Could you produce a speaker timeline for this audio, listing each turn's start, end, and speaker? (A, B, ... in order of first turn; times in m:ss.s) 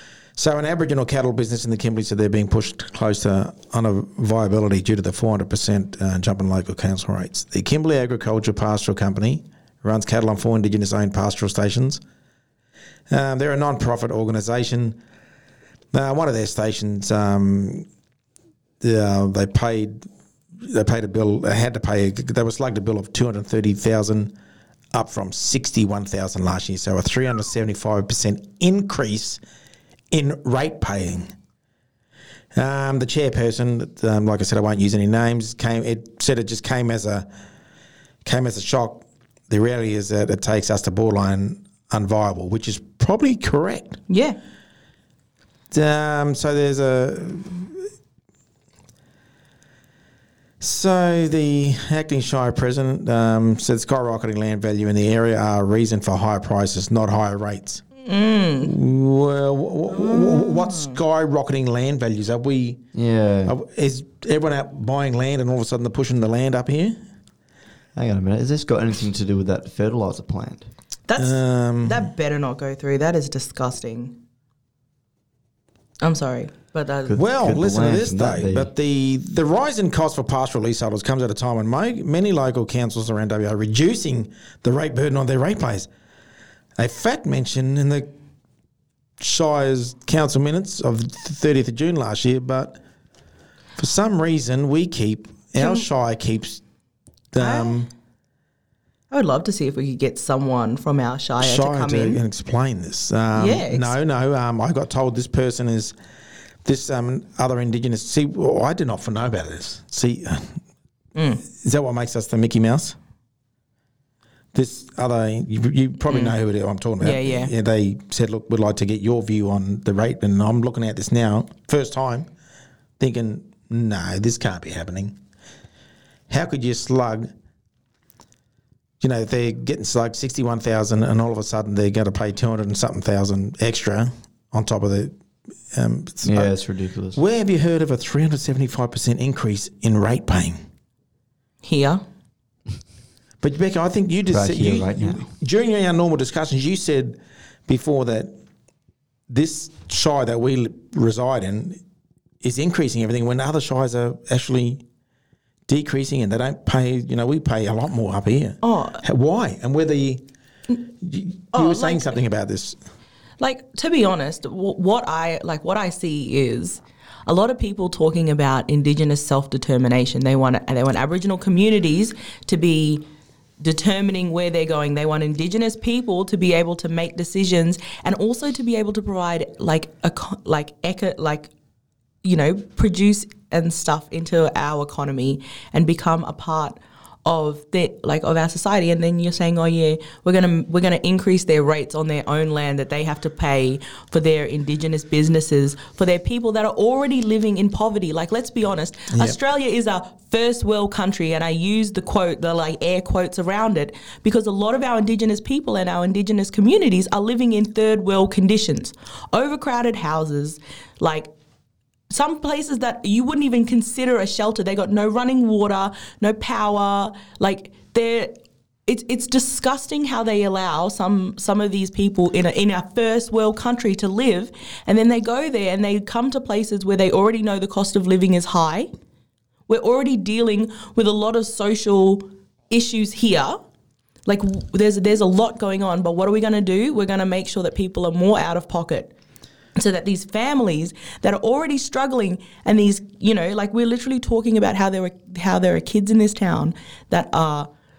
0:00.4-0:12.0 A
0:13.1-0:15.0 A
0:15.9-0:17.9 A
0:18.8-0:20.1 A
0:20.6-0:24.3 A
0:24.9-0:29.4 A
0:30.1-0:31.3 A
0:32.6-0:37.3 A
0:38.2-0:44.0 A
0:44.1-0:44.4 B
0:45.7-0:47.8 A
0:50.6-0:57.8 A
0:58.0-0:58.7 B
0:58.6-1:02.8 A
0:59.9-1:01.0 B
1:02.9-1:03.6 C
1:03.5-1:07.0 A
1:08.0-1:10.7 C
1:11.1-1:14.2 B
1:11.2-1:12.1 A
1:16.0-1:17.2 B
1:17.1-1:18.7 C
1:17.1-1:25.9 A
1:26.8-1:28.1 A
1:29.2-1:32.8 A
1:33.8-1:36.6 A
1:35.6-1:35.9 B
1:37.3-1:37.9 A
1:37.4-1:37.8 B
1:39.1-1:42.2 B
1:41.4-1:46.0 A
1:43.3-1:44.0 B
1:46.6-1:50.6 A
1:51.2-1:51.4 B
1:51.4-1:53.0 A
1:54.5-2:02.3 A
1:56.1-1:56.4 B
1:57.0-1:57.5 B
2:03.0-2:05.2 A
2:06.3-2:07.3 A
2:09.0-2:15.1 A
2:15.7-2:16.6 A
2:16.2-2:17.2 C
2:17.2-2:20.6 A
2:21.6-2:22.0 B
2:23.4-2:28.3 A
2:24.3-2:25.3 C
2:29.3-2:31.8 A
2:32.4-2:34.8 A
2:35.7-2:40.2 A
2:38.6-2:39.0 B
2:41.0-2:42.8 A
2:41.5-2:42.2 B
2:43.4-2:53.0 B
2:53.6-3:01.5 B
3:02.2-3:31.3 B
3:19.1-3:19.4 A
3:32.1-3:48.9 B
3:49.7-3:53.6 B
3:54.3-3:59.1 B
3:59.8-4:07.7 B